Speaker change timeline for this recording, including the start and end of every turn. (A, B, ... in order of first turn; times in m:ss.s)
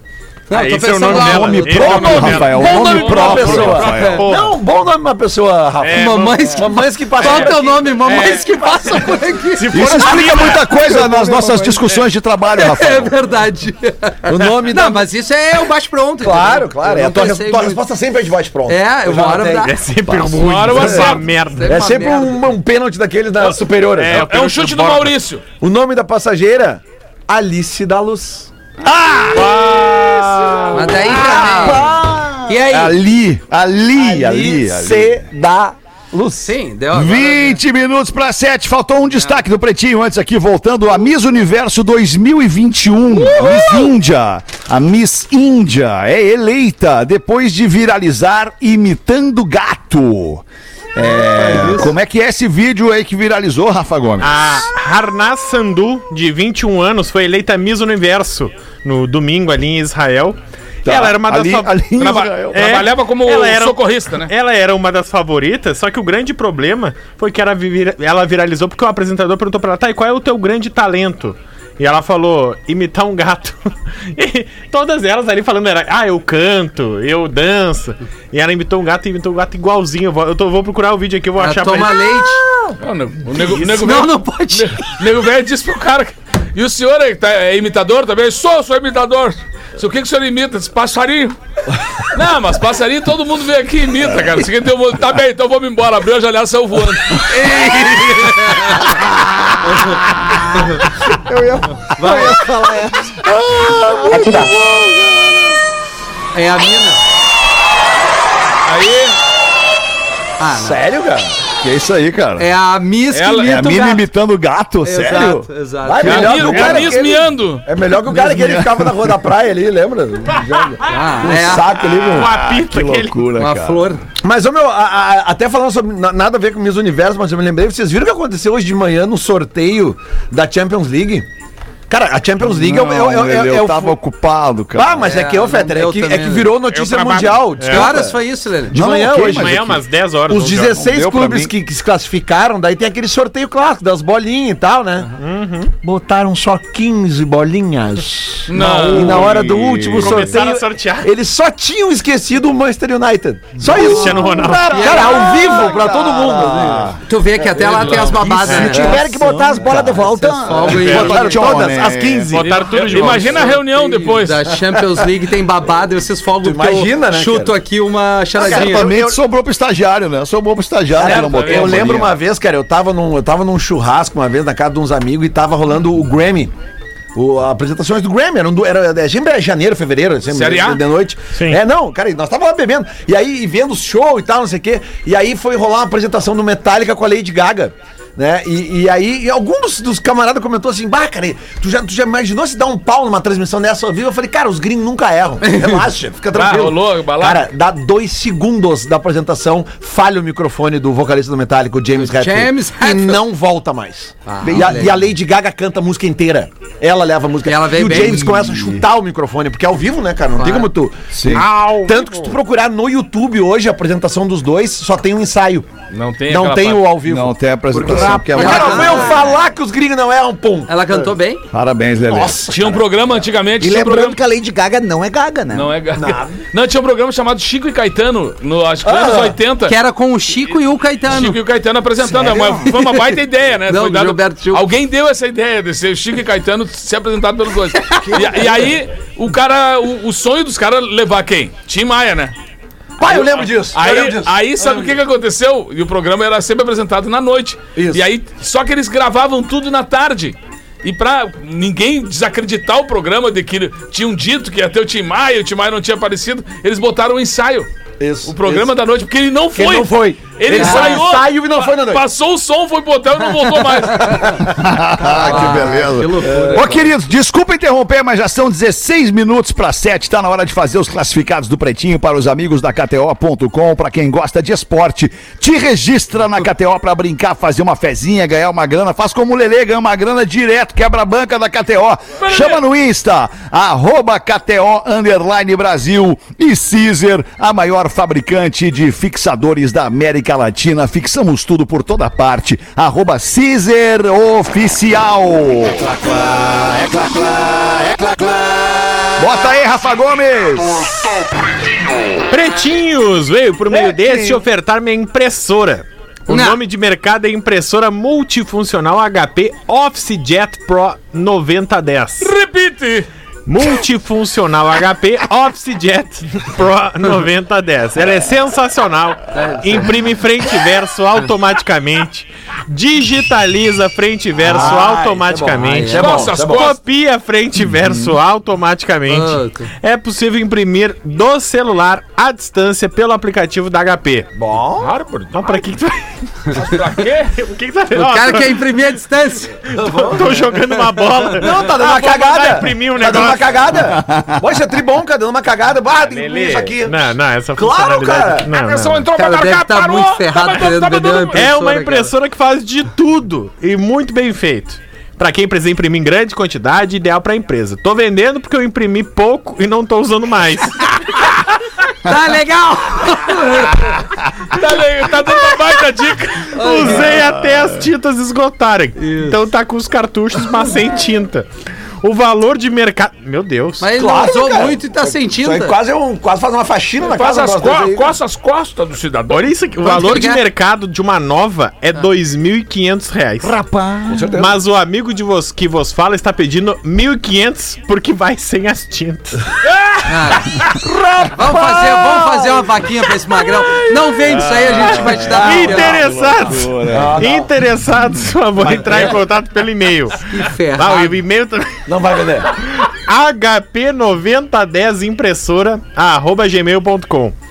0:00.5-0:02.8 A
0:00.5-0:04.6 B
0:01.0-0:04.3 C
0:02.5-0:09.2 D
0:02.6-0:04.1 E
0:03.5-0:04.2 A
0:05.8-0:07.5 B
0:05.9-0:10.2 A
0:09.5-0:10.7 B
0:09.7-0:13.2 C
0:10.9-0:11.6 A
0:12.6-0:17.8 A
0:14.3-0:15.1 D
0:16.2-0:24.3 D
0:18.7-0:19.7 A
0:19.6-0:21.9 B
0:20.4-0:21.3 E
0:21.0-0:22.5 A
0:23.4-0:25.2 B
0:24.1-0:25.4 E
0:25.6-0:28.5 D
0:28.8-0:29.9 C
0:29.3-0:31.5 B
0:30.7-0:31.9 A
0:31.0-0:35.3 C
0:31.2-0:31.7 D
0:32.5-0:33.0 A
0:34.0-0:36.5 D
0:36.4-0:37.6 A
0:36.9-0:54.5 C
0:51.2-0:51.9 A
0:54.2-1:02.0 B
1:00.8-1:02.8 C
1:02.0-1:04.3 E
1:02.5-1:22.2 B
1:21.4-1:22.4 A
1:22.8-1:31.4 E
1:23.4-1:23.7 B
1:23.6-1:24.8 A
1:32.1-1:37.6 E
1:37.3-1:38.9 A
1:39.7-1:40.0 A
1:41.2-1:43.2 F
1:42.0-1:42.3 A
1:42.0-1:42.3 C
1:43.2-1:45.5 C
1:46.3-1:47.0 A
1:48.6-1:49.2 E
1:50.4-1:50.8 A
1:50.6-1:51.4 D
1:51.6-1:52.5 C
1:52.4-1:54.0 A
1:53.1-1:53.5 E
1:53.4-1:55.5 C
1:54.8-1:56.8 A
1:55.8-2:02.3 D
1:56.0-1:57.0 C
1:56.0-1:57.6 E
1:58.1-1:59.1 C
2:00.8-2:01.7 A
2:01.5-2:04.0 C
2:02.0-2:03.2 B
2:03.4-2:04.0 A
2:04.2-2:11.3 D
2:11.9-2:14.0 D
2:12.4-2:15.1 C
2:14.8-2:19.7 D
2:15.0-2:16.5 A
2:16.7-2:18.0 B
2:17.7-2:18.8 A
2:18.7-2:19.8 C
2:19.2-2:20.8 B
2:20.3-2:25.1 D
2:20.7-2:21.5 C
2:25.2-2:25.7 B
2:25.8-2:36.9 D
2:28.5-2:29.2 E
2:28.7-2:30.3 C
2:28.9-2:31.1 B
2:33.6-2:42.4 C
2:33.6-2:34.8 B
2:34.8-2:35.3 A
2:37.1-2:39.0 A
2:37.6-2:38.1 D
2:38.4-2:38.8 B
2:38.6-2:40.6 F
2:40.2-2:41.3 A
2:40.6-2:42.6 D
2:40.7-2:41.2 B
2:42.3-2:43.6 B
2:42.6-2:44.5 E
2:43.4-2:48.9 A
2:46.4-2:47.6 D
2:48.4-2:49.2 D
2:48.4-2:52.2 C
2:51.0-2:56.5 D
2:51.0-2:51.8 E
2:57.2-3:35.7 D
3:00.3-3:00.8 E
3:01.3-3:01.6 B
3:16.3-3:17.4 E
3:22.0-3:23.2 A
3:24.3-3:24.9 A
3:24.4-3:25.1 C
3:27.4-3:28.4 A
3:27.8-3:28.8 C
3:30.4-3:30.7 A
3:31.1-3:31.5 C
3:31.3-3:32.4 B
3:35.9-3:36.9 E
3:36.3-3:41.0 D
3:37.0-3:39.2 C
3:38.3-3:39.3 A
3:40.7-3:41.4 A
3:41.5-3:42.4 C
3:42.1-3:42.8 D
3:42.4-3:44.2 E
3:43.6-3:45.8 F
3:45.5-3:49.8 E
3:46.0-3:46.4 D
3:48.8-3:49.4 D
3:49.6-3:51.4 A
3:51.1-4:02.3 E
3:52.2-3:52.5 F
3:52.5-3:53.2 A
3:53.7-3:54.7 A
3:57.9-3:58.8 F
4:03.0-4:04.4 D
4:03.0-4:17.7 E
4:07.8-4:08.1 D
4:18.0-4:18.8 D
4:18.3-4:24.4 E
4:19.5-4:22.1 D
4:20.5-4:21.0 A
4:24.4-4:55.9 C
4:25.0-4:26.8 A
4:26.3-4:26.7 D
4:42.2-4:42.6 E
4:59.2-5:01.0 C
5:02.3-5:12.3 B
5:03.7-5:04.4 C
5:06.3-5:06.6 A
5:12.2-5:13.1 E
5:13.5-5:36.7 B
5:19.3-5:19.9 A
5:24.4-5:26.7 D
5:24.5-5:24.8 A
5:25.6-5:26.3 A
5:25.9-5:26.8 E
5:27.7-5:28.2 C
5:29.1-5:29.7 A
5:34.4-5:34.9 D
5:36.5-5:37.4 E
5:37.3-5:38.7 B
5:38.0-5:39.6 A
5:39.7-5:40.5 D
5:39.7-5:43.7 B
5:41.4-5:48.5 D
5:43.7-5:44.6 C
5:46.0-5:49.1 B
5:48.5-5:51.5 E
5:49.2-5:52.1 A
5:51.4-6:01.4 B
6:02.0-6:04.0 A
6:04.5-6:06.7 E
6:06.5-6:11.5 B
6:06.6-6:07.1 A
6:09.0-6:09.4 A
6:12.0-6:13.9 B
6:13.8-6:15.8 A
6:14.0-6:18.2 D
6:17.0-6:19.5 E
6:19.3-6:23.6 B
6:19.8-6:20.4 A
6:23.4-6:24.4 F
6:24.1-6:24.5 D
6:24.4-6:29.5 B
6:30.1-6:30.6 A
6:31.3-6:36.0 A
6:34.2-6:37.3 C
6:35.2-6:41.7 B
6:35.4-6:35.7 D
6:36.9-6:37.5 D
6:38.6-6:39.2 D
6:40.3-6:41.2 A
6:41.9-6:42.6 D
6:42.7-6:47.4 B